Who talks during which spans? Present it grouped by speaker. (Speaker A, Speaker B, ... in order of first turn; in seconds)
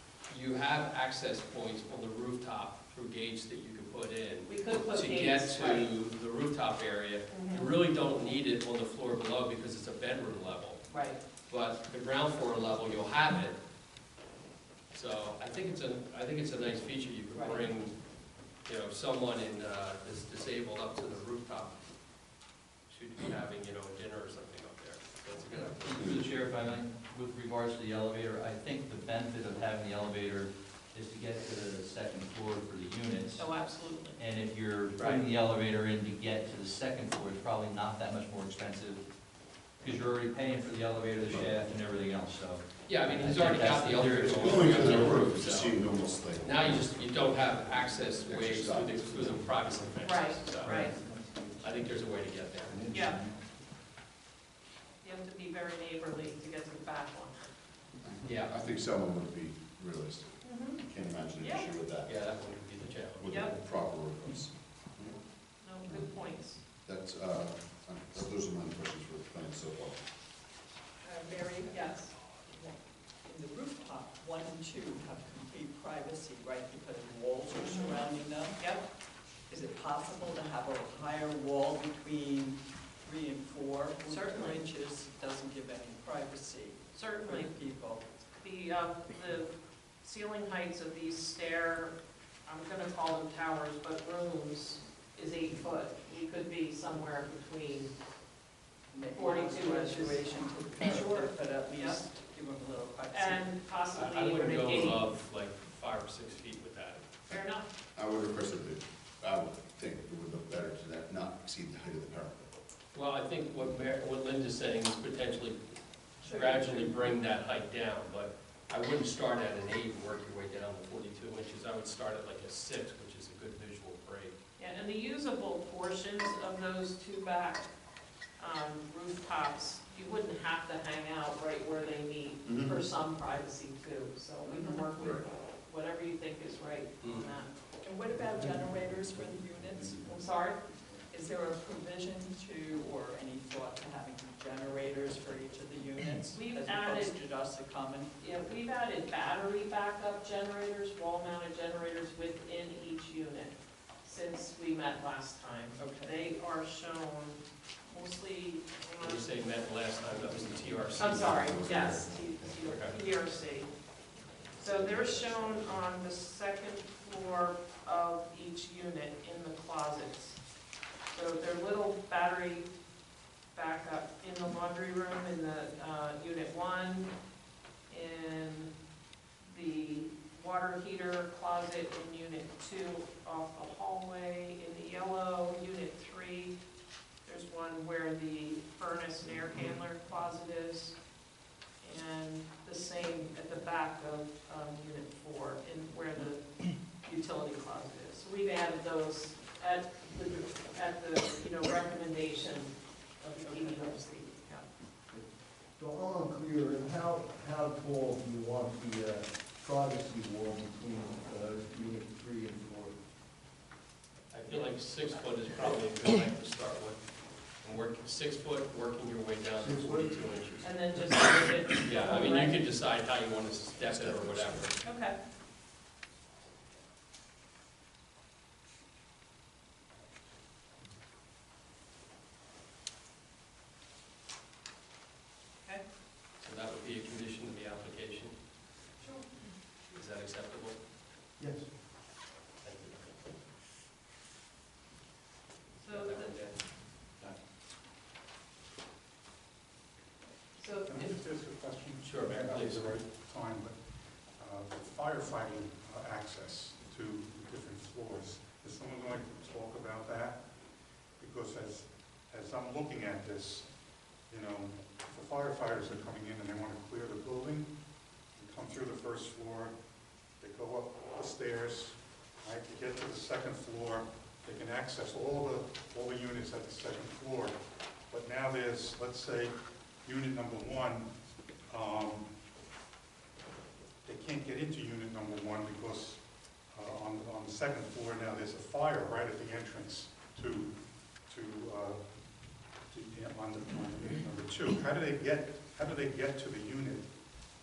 Speaker A: 0.3-10.8, 11.5-13.6, 14.9-17.9, 18.6-21.8, 22.9-26.2, 35.0-35.2, 42.9-45.9, 46.4-51.0, 51.6-53.1, 58.2-58.6, 62.0-63.3, 103.9-107.1, 112.9-124.4, 137.0-137.3, 159.0-161.6, 162.6-162.9, 214.3-217.0, 217.6-220.8, 221.8-224.8, 236.4-238.3, 239.9-240.8, 242.6-243.0, 245.9-246.6, 252.0-253.0
Speaker B: 4.5-5.9, 7.3-7.7, 10.9-11.2, 17.3-17.6, 33.4-34.2, 50.0-50.9, 52.9-53.2, 55.0-57.5, 60.4-60.8, 61.4-61.7, 63.3-63.6, 65.6-66.6, 71.7-72.1, 84.1-84.6, 86.9-87.5, 88.3-92.0, 92.5-97.9, 99.1-100.2, 100.9-102.0, 103.1-105.0, 107.3-107.7, 124.6-127.7, 128.4-137.6, 140.1-140.6, 146.3-147.1, 148.2-159.3, 161.0-163.7, 164.6-170.4, 171.1-172.7, 173.5-177.1, 177.9-178.7, 179.4-186.6, 187.2-191.0, 191.8-204.7, 220.6-222.6, 224.8-225.2, 239.0-239.5, 245.8-246.4, 250.6-251.2
Speaker C: 25.5-39.1, 39.8-45.2, 50.5-51.0
Speaker D: 44.5-46.9, 48.0-49.7, 58.0-62.3, 63.2-70.0, 107.9-112.5, 132.4-132.8, 160.3-163.1, 164.6-165.8, 223.8-224.8
Speaker E: 71.0-78.8, 79.5-88.1, 98.9-103.5, 116.2-117.1, 134.5-134.9, 137.8-140.5, 141.1-148.2, 155.8-156.2, 203.4-204.0
Speaker F: 205.1-212.9, 219.6-220.2, 241.4-241.7
Speaker G: 250.9-253.8, 254.4-260.4, 261.2-263.7, 264.3-267.7, 268.4-269.7, 270.4-277.6, 278.1-281.1, 281.7-282.3, 284.0-290.7, 291.3-292.0, 292.9-297.2